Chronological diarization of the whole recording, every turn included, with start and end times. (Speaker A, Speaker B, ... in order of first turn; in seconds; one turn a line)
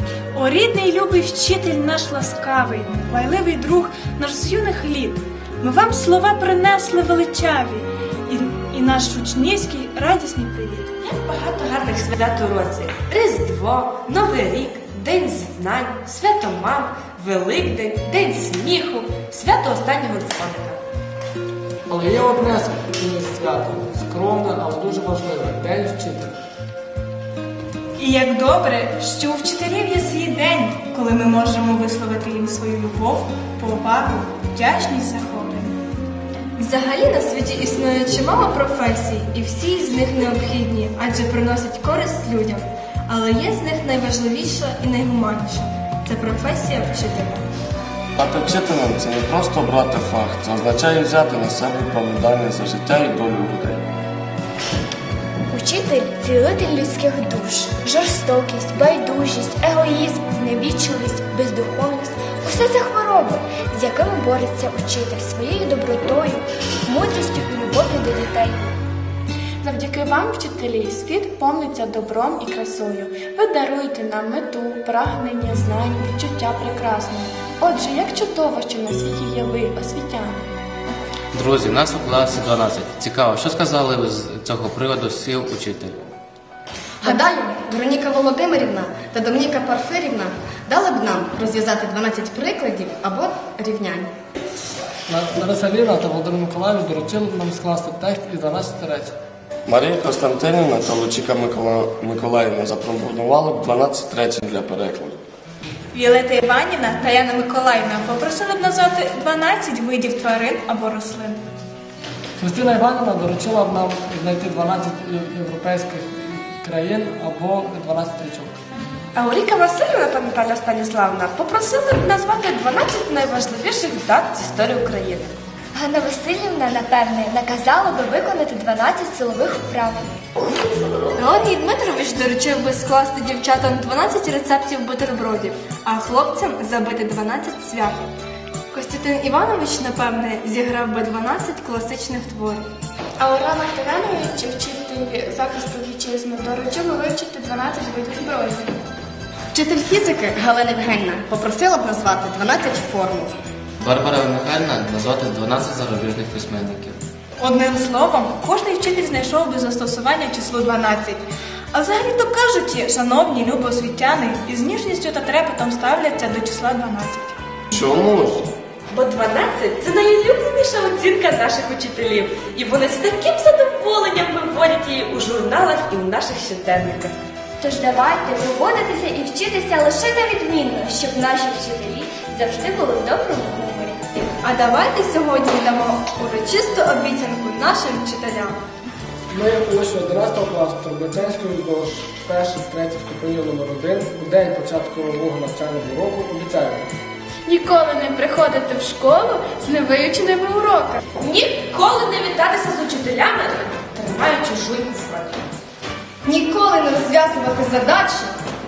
Speaker A: 0.3-10.9
Speaker B: 11.0-20.8
Speaker C: 21.9-26.4
Speaker A: 28.0-35.8
Speaker D: 36.6-47.4
Speaker E: 48.2-53.8
Speaker F: 55.5-68.7
Speaker G: 69.6-80.4
Speaker H: 81.3-86.1
Speaker I: 87.0-94.1
Speaker C: 95.1-99.1
Speaker E: 99.7-105.2
Speaker A: 105.9-111.4
Speaker C: 112.4-118.5
Speaker B: 119.1-125.3
Speaker F: 125.7-130.1
Speaker D: 131.2-138.0
Speaker D: 138.7-142.7
Speaker G: 143.2-148.7
Speaker I: 149.5-153.3
Speaker H: 153.8-156.9
Speaker A: 157.4-167.3
Speaker E: 167.7-168.5
Speaker B: 168.9-177.1
Speaker F: 177.6-184.2
Speaker D: 184.4-188.6
Speaker C: 189.3-196.9
Speaker G: 197.5-201.0
Speaker B: 201.2-205.4
Speaker I: 206.2-208.3